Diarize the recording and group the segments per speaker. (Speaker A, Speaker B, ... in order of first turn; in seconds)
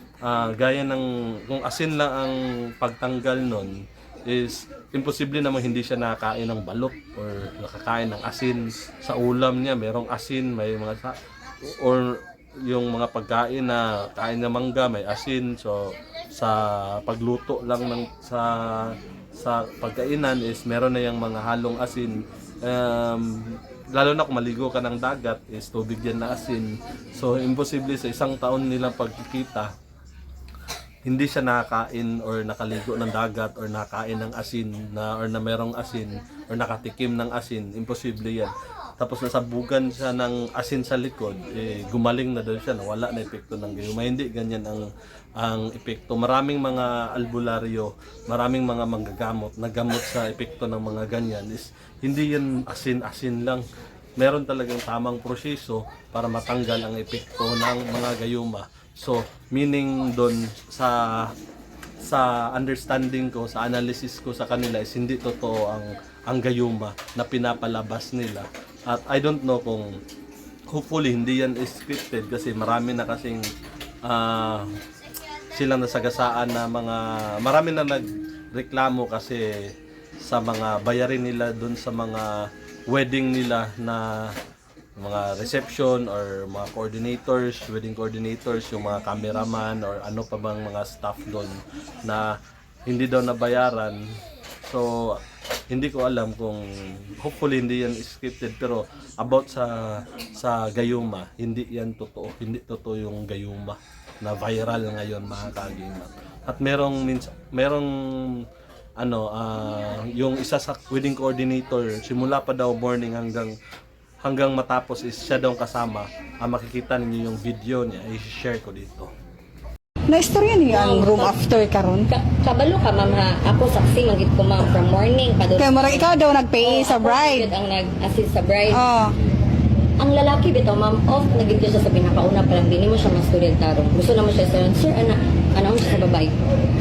Speaker A: 0.2-3.8, 4.3-11.2, 11.8-29.7, 31.1-44.9, 45.4-53.6, 54.2-61.3, 62.0-69.9, 70.7-73.4, 74.0-74.7, 75.5-79.5, 80.2-82.3, 82.9-84.3, 85.0-92.3, 92.9-94.0, 94.6-95.2, 95.7-96.6, 97.2-108.4, 109.0-113.5, 114.2-119.1
Speaker B: 120.1-122.1, 125.6-127.5, 128.7-129.1
Speaker C: 120.7-121.4, 122.1-126.1, 126.6-128.8, 130.0-136.4